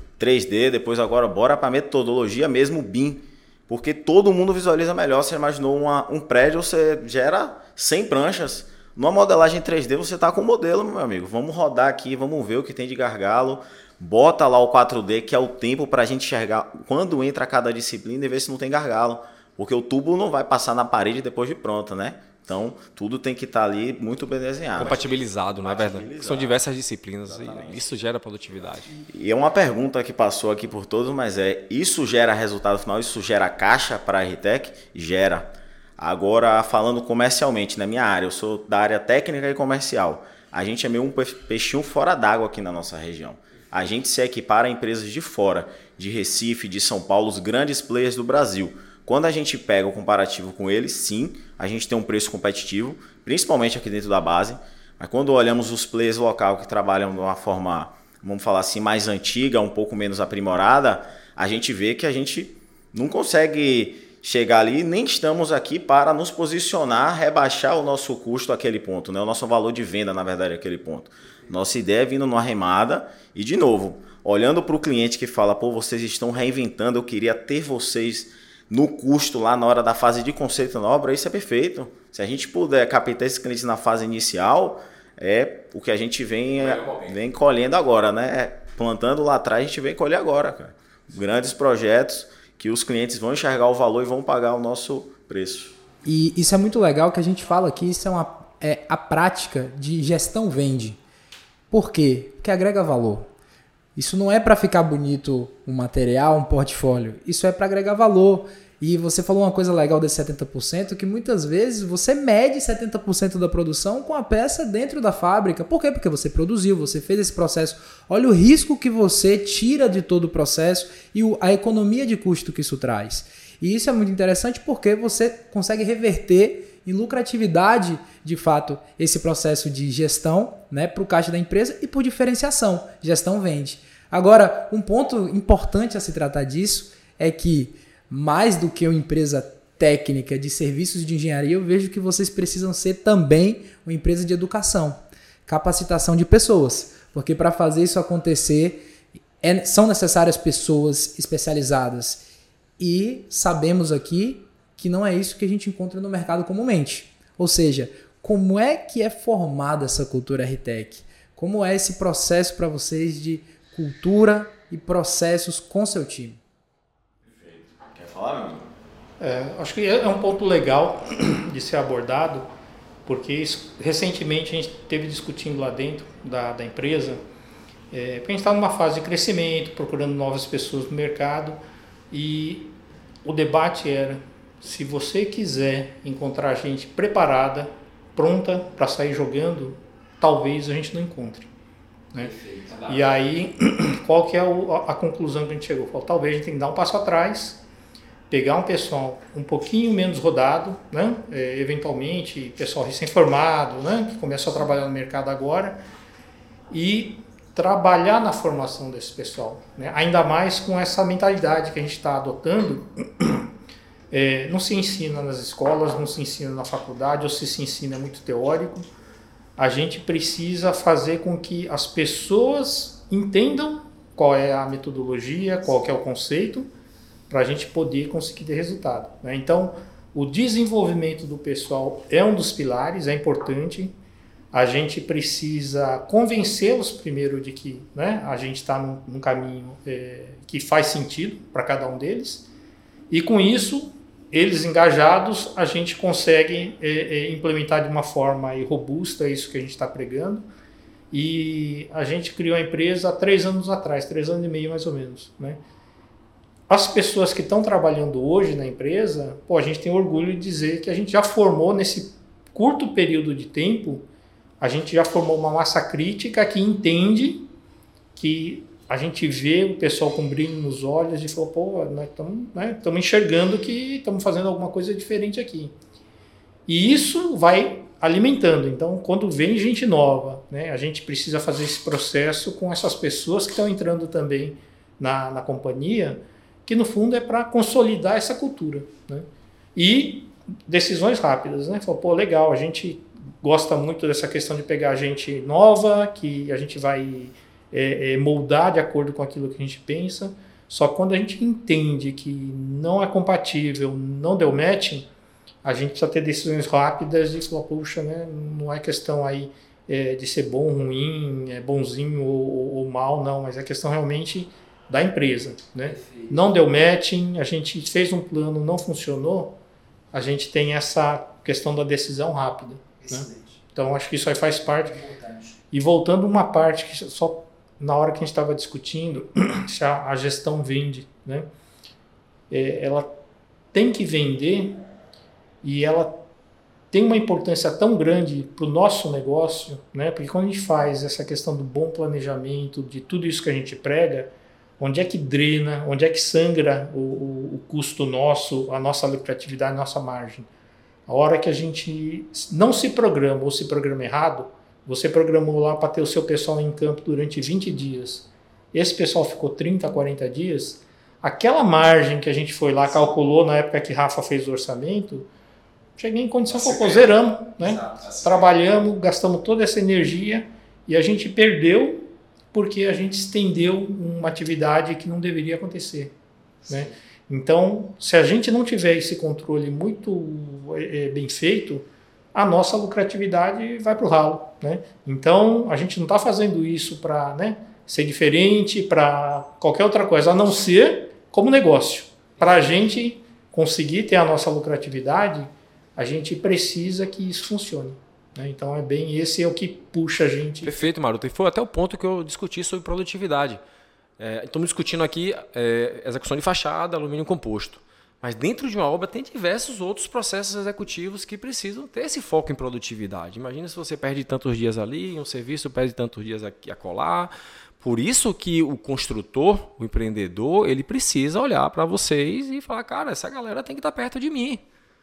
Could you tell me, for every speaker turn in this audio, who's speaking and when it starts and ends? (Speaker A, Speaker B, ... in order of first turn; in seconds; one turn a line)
Speaker A: 0.2-25.1
Speaker B: 24.7-28.9
Speaker A: 25.6-26.6
Speaker A: 27.2-28.0
Speaker A: 29.0-95.7
Speaker B: 86.6-87.1
Speaker C: 96.0-101.0
Speaker C: 101.7-103.3
Speaker C: 104.0-148.8
Speaker C: 149.4-152.2
Speaker C: 152.8-166.4
Speaker A: 167.2-168.7
Speaker D: 169.2-172.5
Speaker D: 173.1-177.2
Speaker D: 177.9-181.6
Speaker D: 182.1-182.7
Speaker D: 183.2-191.5
Speaker B: 192.2-193.0
Speaker D: 192.9-197.6
Speaker D: 198.3-205.8
Speaker D: 206.7-213.5
Speaker D: 214.1-218.9
Speaker D: 219.6-226.7
Speaker D: 227.3-233.9
Speaker D: 234.5-242.4
Speaker D: 243.1-250.4
Speaker D: 251.1-255.6
Speaker D: 256.7-264.1
Speaker D: 264.6-267.5
Speaker D: 268.1-275.7
Speaker D: 276.7-305.1
Speaker D: 305.6-319.6
Speaker C: 315.9-316.4
Speaker D: 320.1-325.0
Speaker C: 323.0-323.6
Speaker C: 324.8-325.6
Speaker D: 325.7-331.4
Speaker D: 332.5-333.2
Speaker D: 333.7-334.8
Speaker D: 335.6-336.2
Speaker D: 336.9-350.5
Speaker D: 351.1-365.3
Speaker D: 366.0-376.1
Speaker B: 366.5-367.1
Speaker B: 367.6-368.4
Speaker D: 376.7-400.8
Speaker B: 400.6-403.6
Speaker B: 404.2-424.6